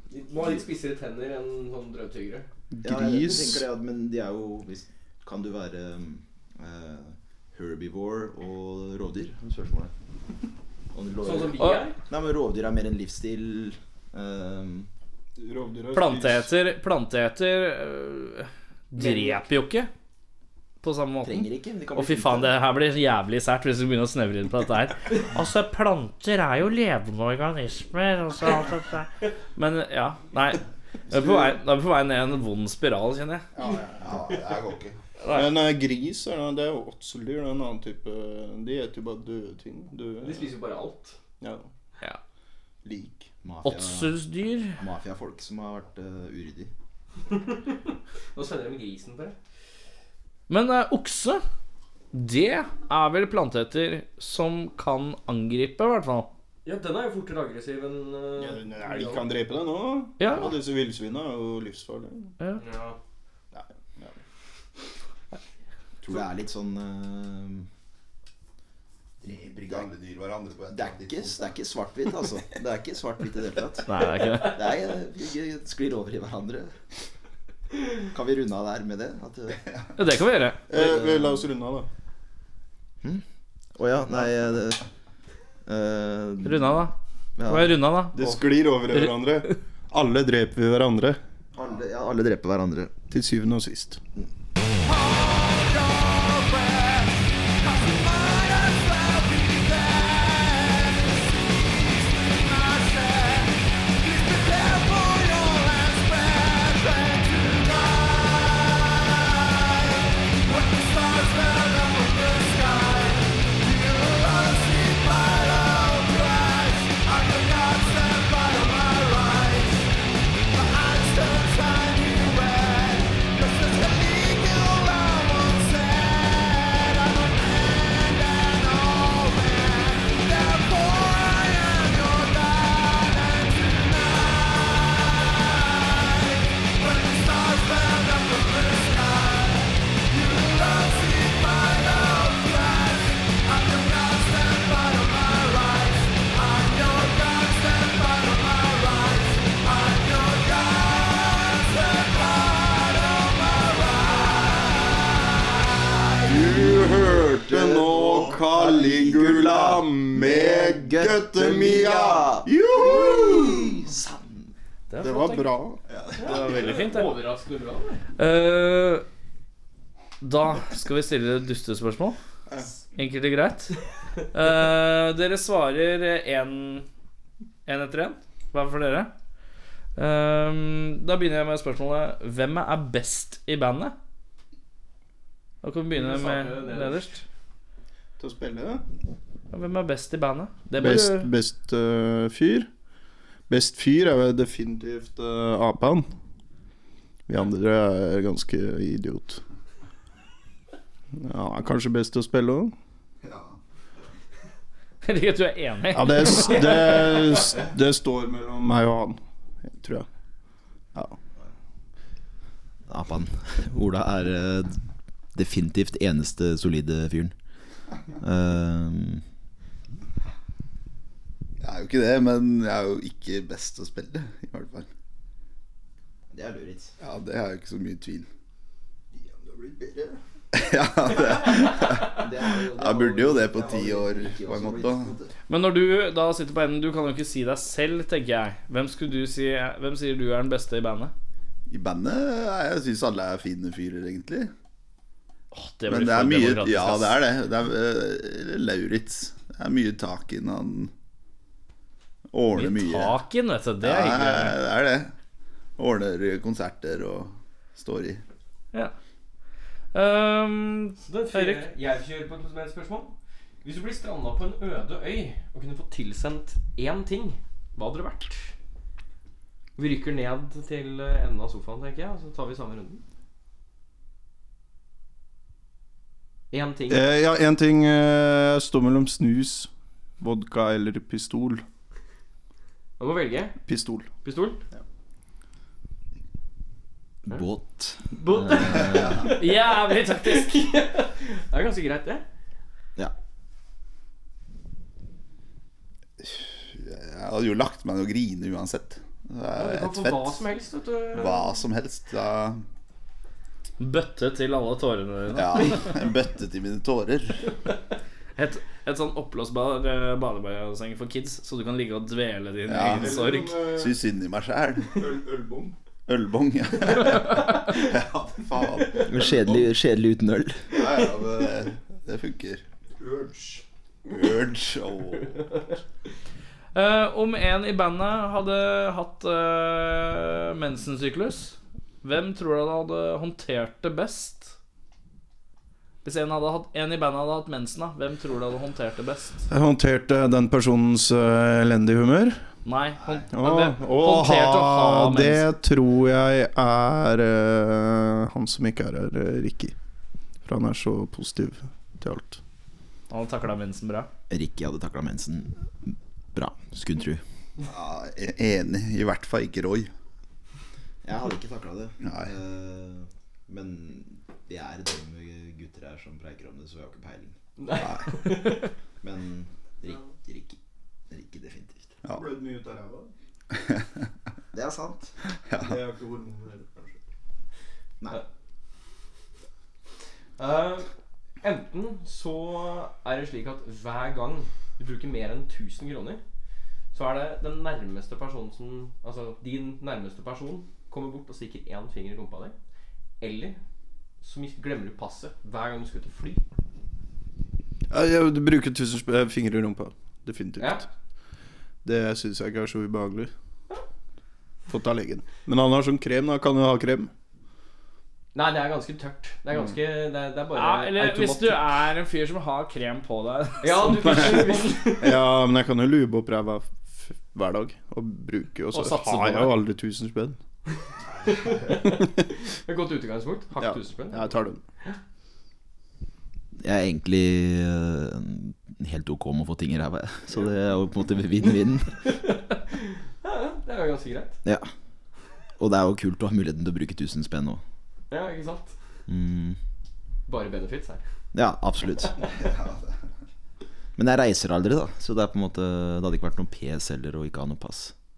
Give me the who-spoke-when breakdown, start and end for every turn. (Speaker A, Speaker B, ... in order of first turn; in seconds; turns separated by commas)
Speaker A: 0.1-2.5, Speaker B: 2.7-3.7, Speaker C: 2.8-9.9, Speaker C: 10.9-14.9, Speaker A: 11.2-12.0, Speaker D: 11.6-11.8, Speaker B: 15.4-16.5, Speaker D: 15.9-19.9, Speaker A: 19.0-19.4, Speaker D: 20.8-33.5, Speaker C: 21.2-22.6, Speaker B: 33.6-34.1, Speaker E: 34.0-35.0, Speaker D: 35.2-35.5, Speaker B: 35.3-40.5, Speaker A: 40.2-41.2, Speaker B: 41.4-41.7, Speaker B: 42.8-43.3, Speaker C: 43.4-44.2, Speaker D: 43.6-44.8, Speaker C: 44.8-46.7, Speaker A: 47.3-49.4, Speaker D: 50.5-51.4, Speaker D: 52.1-56.3, Speaker A: 56.6-59.3, Speaker B: 58.4-62.3, Speaker D: 60.2-60.5, Speaker A: 62.6-63.0, Speaker B: 63.5-64.2, Speaker C: 66.0-67.7, Speaker C: 69.2-69.9, Speaker E: 69.2-71.5, Speaker C: 70.7-73.9, Speaker D: 73.9-74.6, Speaker C: 74.4-76.7, Speaker C: 78.1-79.6, Speaker D: 80.0-80.7, Speaker B: 80.7-81.9, Speaker C: 80.7-81.3, Speaker C: 83.8-84.9, Speaker C: 85.7-86.8, Speaker D: 86.4-86.9, Speaker C: 87.4-87.8, Speaker D: 87.5-88.3, Speaker B: 88.1-91.2, Speaker C: 91.5-92.9, Speaker B: 93.1-94.0, Speaker E: 113.7-114.7, Speaker E: 115.5-116.7, Speaker E: 121.5-122.1, Speaker E: 123.9-124.8, Speaker E: 130.1-132.3, Speaker E: 140.2-141.1, Speaker E: 142.1-142.5, Speaker B: 156.3-163.8, Speaker C: 158.0-164.5, Speaker D: 164.9-165.6, Speaker B: 165.0-165.8, Speaker C: 165.9-166.3, Speaker A: 166.2-168.0, Speaker D: 166.2-167.2, Speaker D: 168.2-169.1, Speaker D: 170.2-172.2, Speaker D: 172.9-173.8, Speaker D: 174.3-176.9, Speaker D: 177.7-179.1, Speaker D: 180.0-183.9, Speaker D: 185.6-187.2, Speaker A: 185.9-187.2, Speaker B: 188.2-188.8, Speaker D: 189.5-191.3, Speaker B: 190.7-192.7, Speaker B: 193.5-196.1, Speaker B: 197.3-199.4, Speaker B: 201.2-202.7, Speaker E: 203.2-203.6, Speaker D: 205.0-207.0, Speaker B: 205.9-210.1, Speaker C: 212.9-214.8, Speaker C: 215.3-217.3, Speaker C: 218.2-219.2, Speaker E: 221.6-224.9, Speaker C: 226.3-226.9, Speaker E: 227.0-228.3, Speaker B: 229.2-230.2, Speaker E: 230.5-235.2, Speaker C: 231.3-235.3, Speaker D: 235.5-241.1, Speaker E: 241.7-244.5, Speaker D: 245.5-247.2, Speaker E: 245.9-250.9, Speaker E: 252.3-253.2, Speaker D: 252.5-254.6, Speaker E: 253.8-255.1, Speaker E: 255.8-258.2, Speaker D: 259.9-261.7, Speaker A: 261.0-268.5, Speaker A: 269.8-273.0, Speaker A: 276.5-277.1, Speaker B: 276.9-281.6, Speaker A: 283.0-283.6, Speaker B: 283.6-284.1, Speaker A: 284.2-284.6, Speaker C: 287.2-289.3, Speaker A: 288.1-292.2, Speaker D: 289.4-290.6, Speaker E: 296.2-300.4, Speaker A: 299.6-301.5, Speaker E: 301.1-302.6, Speaker D: 303.8-305.9, Speaker E: 305.3-307.5, Speaker D: 308.4-313.6, Speaker E: 312.7-315.1, Speaker B: 312.8-314.0, Speaker B: 314.9-315.8, Speaker E: 316.1-319.7, Speaker C: 319.0-320.8, Speaker E: 320.7-322.6, Speaker B: 323.0-323.6, Speaker E: 324.1-325.7, Speaker A: 325.4-325.6, Speaker D: 326.7-334.6, Speaker D: 336.0-339.5, Speaker B: 339.5-342.4, Speaker D: 342.6-345.4, Speaker B: 343.3-349.8, Speaker B: 350.4-352.4, Speaker D: 353.1-354.1, Speaker C: 354.3-357.2, Speaker E: 357.6-359.9, Speaker C: 361.0-367.4, Speaker E: 362.0-362.3, Speaker A: 367.6-368.7, Speaker C: 369.0-370.6, Speaker C: 371.1-372.0, Speaker E: 372.0-372.3, Speaker B: 372.1-373.1, Speaker C: 374.5-375.1, Speaker E: 375.5-375.8, Speaker B: 375.6-377.0, Speaker A: 380.4-380.9, Speaker A: 381.4-386.2, Speaker A: 386.9-392.6, Speaker A: 393.2-393.6, Speaker A: 394.2-396.4, Speaker B: 397.9-400.9, Speaker A: 400.6-400.9, Speaker B: 401.8-403.3, Speaker B: 404.7-407.1, Speaker A: 408.3-411.6, Speaker D: 410.6-414.9, Speaker A: 413.6-415.2, Speaker B: 414.4-420.4, Speaker D: 418.7-419.6, Speaker E: 421.1-421.8, Speaker A: 421.2-425.0, Speaker B: 423.6-424.6, Speaker C: 426.6-432.2, Speaker A: 432.1-434.4, Speaker C: 434.4-434.7, Speaker C: 435.6-437.6, Speaker A: 438.1-438.8, Speaker C: 439.1-439.6, Speaker A: 440.3-441.0, Speaker C: 441.3-442.2, Speaker E: 442.2-443.0, Speaker C: 444.0-447.9